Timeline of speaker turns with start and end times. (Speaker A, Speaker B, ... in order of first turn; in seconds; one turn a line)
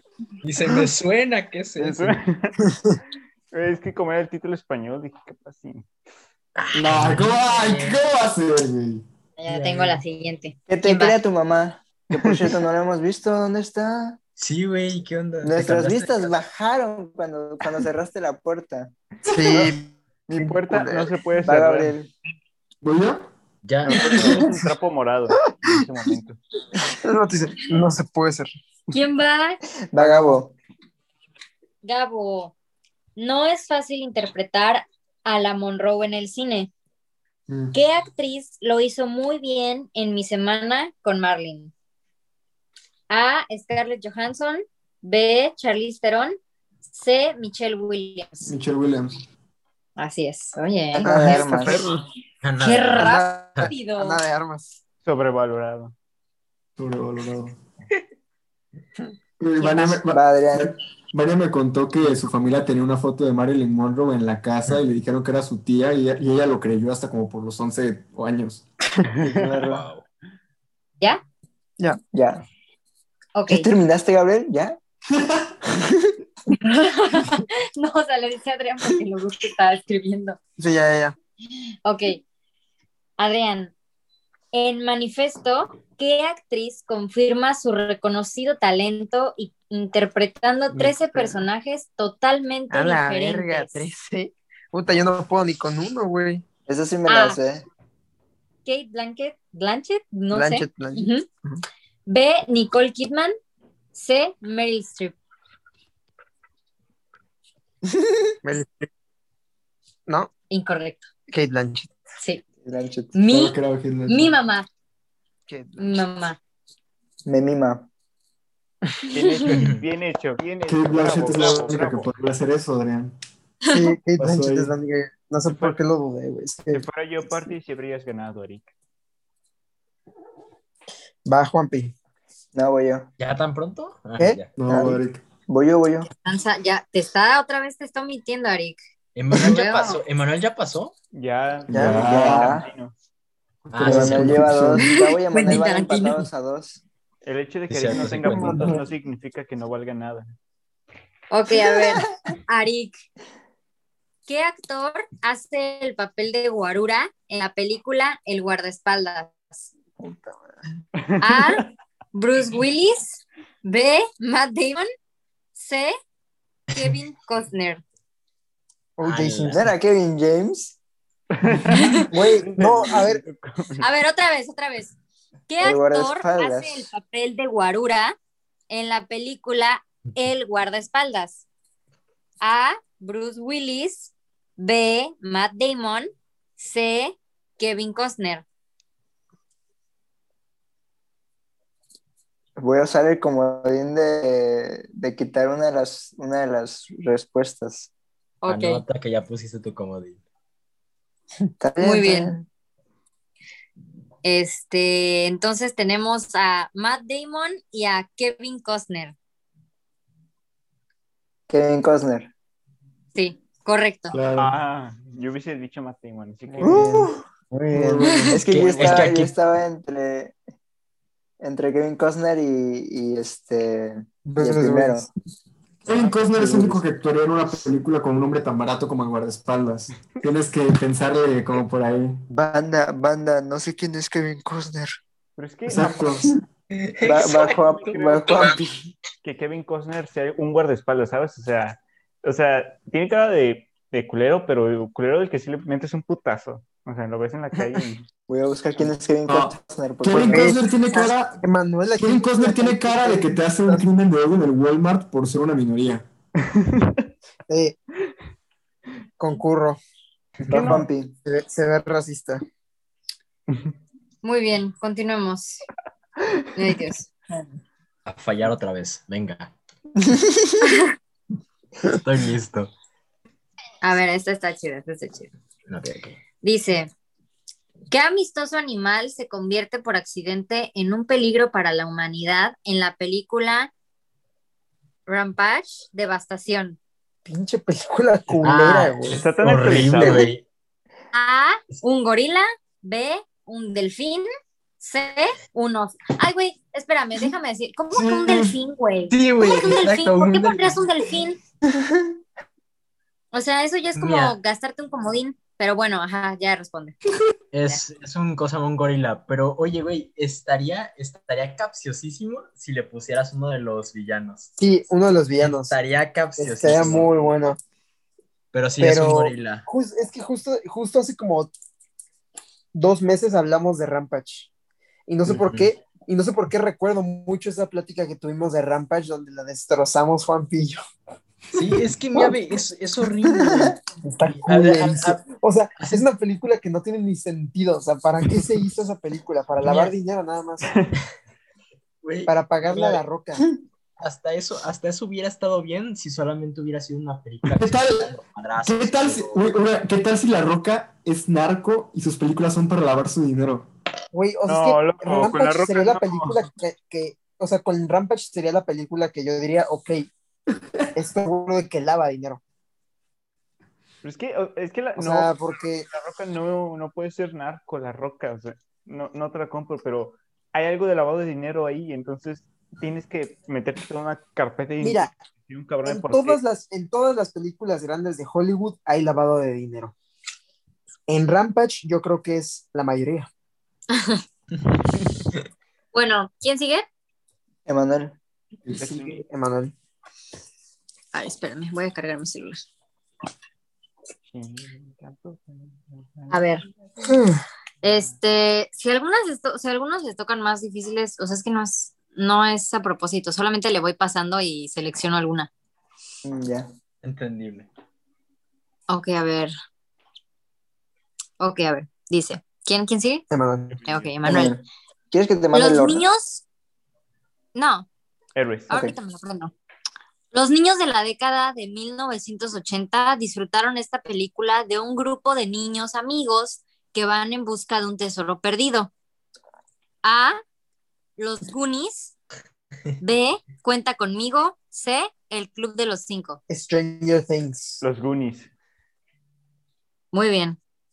Speaker A: 0.4-2.0
Speaker B: 1.8-2.6
Speaker C: 2.6-2.9
Speaker B: 3.5-5.8
Speaker A: 6.5-8.0
Speaker D: 6.7-9.0
Speaker E: 9.4-11.2
Speaker A: 9.4-10.0
Speaker F: 10.7-14.2
Speaker A: 14.4-16.4
Speaker F: 15.4-19.7
Speaker C: 19.2-21.1
Speaker B: 20.3-21.9
Speaker F: 21.4-22.1
Speaker D: 22.8-23.2
Speaker A: 23.6-24.6
Speaker B: 23.8-26.4
Speaker C: 27.0-28.5
Speaker E: 28.9-29.6
Speaker F: 29.9-30.5
Speaker C: 29.9-30.4
Speaker E: 31.8-32.5
Speaker E: 33.2-36.7
Speaker D: 37.5-37.8
Speaker E: 37.7-41.7
Speaker E: 43.1-46.3
Speaker E: 46.9-48.5
Speaker D: 48.5-49.1
Speaker E: 50.0-51.7
Speaker C: 51.0-52.0
Speaker F: 51.0-51.8
Speaker A: 52.4-53.7
Speaker E: 52.6-54.2
Speaker C: 53.0-54.8
Speaker B: 55.0-55.9
Speaker D: 56.8-57.6
Speaker D: 59.4-68.6
Speaker F: 59.8-60.7
Speaker F: 69.2-69.9
Speaker A: 69.5-70.0
Speaker F: 72.1-72.4
Speaker E: 73.3-73.7
Speaker F: 73.5-74.8
Speaker E: 76.5-80.4
Speaker C: 80.6-81.1
Speaker E: 81.8-82.2
Speaker E: 83.2-83.7
Speaker E: 84.5-93.8
Speaker C: 90.7-91.4
Speaker C: 92.7-96.4
Speaker F: 96.7-97.6
Speaker E: 97.1-97.4
Speaker E: 98.6-101.3
Speaker C: 100.3-101.1
Speaker E: 102.1-103.3
Speaker E: 103.9-105.2
Speaker F: 107.8-108.2
Speaker C: 108.4-108.9
Speaker E: 110.5-111.1
Speaker C: 111.3-111.9
Speaker F: 112.6-113.1
Speaker E: 113.1-114.7
Speaker D: 113.3-114.3
Speaker C: 115.5-116.0
Speaker E: 115.8-116.4
Speaker F: 117.2-117.9
Speaker B: 119.1-122.1
Speaker A: 119.5-119.8
Speaker D: 120.7-123.2
Speaker E: 123.7-124.0
Speaker C: 123.7-126.8
Speaker D: 124.2-124.7
Speaker B: 125.5-125.8
Speaker B: 126.7-128.7
Speaker C: 131.2-131.9
Speaker F: 132.5-133.1
Speaker A: 133.2-134.5
Speaker D: 134.5-135.2
Speaker F: 134.7-136.1
Speaker E: 136.1-138.8
Speaker A: 139.2-140.9
Speaker E: 139.3-140.0
Speaker B: 141.1-142.9
Speaker D: 141.7-142.6
Speaker F: 141.7-142.7
Speaker D: 143.7-144.9
Speaker A: 143.7-144.6
Speaker F: 143.8-146.8
Speaker E: 144.8-146.3
Speaker B: 147.2-150.3
Speaker A: 147.7-148.8
Speaker C: 148.0-148.8
Speaker E: 151.3-153.0
Speaker E: 154.3-159.7
Speaker B: 161.0-161.7
Speaker E: 161.2-164.8
Speaker E: 165.5-165.9
Speaker E: 166.7-167.8
Speaker C: 169.0-169.6
Speaker A: 169.0-169.7
Speaker F: 169.5-170.8
Speaker B: 171.4-173.9
Speaker E: 171.7-172.1
Speaker C: 172.1-173.2
Speaker E: 173.8-174.9
Speaker E: 175.5-178.1
Speaker F: 175.6-176.9
Speaker E: 178.7-181.4
Speaker E: 182.4-188.4
Speaker F: 192.6-197.9
Speaker E: 198.4-198.8
Speaker A: 198.4-200.2
Speaker F: 201.6-202.4
Speaker E: 201.8-202.3
Speaker E: 204.2-209.1
Speaker F: 211.5-212.3
Speaker E: 213.1-214.2
Speaker D: 214.1-214.5
Speaker B: 214.3-217.0
Speaker C: 216.6-217.1
Speaker F: 216.6-217.1
Speaker D: 217.7-218.4
Speaker C: 217.7-218.0
Speaker F: 217.7-220.3
Speaker A: 218.3-219.3
Speaker B: 218.6-219.1
Speaker F: 221.4-225.1
Speaker C: 224.2-225.1
Speaker D: 225.8-232.2
Speaker F: 226.2-226.8
Speaker F: 232.3-234.9
Speaker B: 235.4-236.1
Speaker D: 235.7-236.3
Speaker A: 236.7-238.6
Speaker F: 237.0-238.6
Speaker B: 237.4-238.4
Speaker B: 239.2-248.0
Speaker F: 248.3-250.5
Speaker D: 249.2-251.4
Speaker C: 250.2-253.8
Speaker D: 251.9-256.1
Speaker B: 256.5-257.1
Speaker C: 257.5-257.8
Speaker C: 259.2-259.8
Speaker F: 260.5-261.1
Speaker B: 260.5-260.8
Speaker C: 261.2-262.4
Speaker E: 264.2-265.6
Speaker E: 266.5-267.1
Speaker A: 268.1-269.5
Speaker F: 270.0-270.6
Speaker A: 271.9-272.7
Speaker E: 273.8-275.3
Speaker A: 275.7-276.2
Speaker E: 276.4-276.9
Speaker E: 277.9-283.7
Speaker E: 285.1-286.8
Speaker C: 287.2-289.2
Speaker A: 288.4-290.4
Speaker B: 289.1-290.3
Speaker E: 291.1-294.3
Speaker E: 294.8-301.4
Speaker D: 297.9-298.5
Speaker A: 299.1-300.9
Speaker E: 303.3-307.0
Speaker A: 303.9-304.4
Speaker A: 307.5-314.5
Speaker C: 314.6-315.8
Speaker A: 315.4-317.2
Speaker C: 316.4-317.6
Speaker A: 318.5-319.6
Speaker C: 318.8-321.5
Speaker C: 322.7-324.5
Speaker C: 325.1-330.8
Speaker A: 325.2-325.7
Speaker A: 331.5-335.2
Speaker F: 333.3-333.8
Speaker C: 334.0-340.7
Speaker A: 335.8-336.0
Speaker A: 339.6-339.9
Speaker B: 340.6-340.9
Speaker A: 342.0-343.0
Speaker C: 342.2-343.4
Speaker A: 344.0-349.4
Speaker D: 347.4-353.7
Speaker C: 354.1-360.1
Speaker B: 354.4-356.4
Speaker C: 360.9-362.4
Speaker B: 364.0-365.4
Speaker C: 365.0-365.9
Speaker B: 365.9-376.4
Speaker C: 374.8-375.1
Speaker C: 375.8-379.9
Speaker C: 381.1-383.3
Speaker E: 383.9-384.2
Speaker E: 385.9-386.8
Speaker F: 387.7-388.1
Speaker D: 388.6-389.1
Speaker B: 388.8-389.2
Speaker C: 389.1-389.7
Speaker E: 391.1-392.6
Speaker B: 394.3-396.4
Speaker E: 396.3-396.6
Speaker C: 397.1-397.4
Speaker E: 397.8-405.5
Speaker F: 406.2-406.7
Speaker A: 407.0-407.7
Speaker E: 408.9-409.5
Speaker E: 411.4-413.2
Speaker C: 413.3-413.8
Speaker E: 413.8-414.6
Speaker F: 414.2-416.0
Speaker E: 415.5-416.4
Speaker E: 417.5-417.9
Speaker B: 418.4-418.7
Speaker E: 418.7-419.5
Speaker E: 420.3-428.9
Speaker E: 430.0-430.4
Speaker E: 431.2-432.1
Speaker E: 433.0-436.4
Speaker C: 436.5-437.8
Speaker B: 437.8-438.5
Speaker E: 440.1-440.6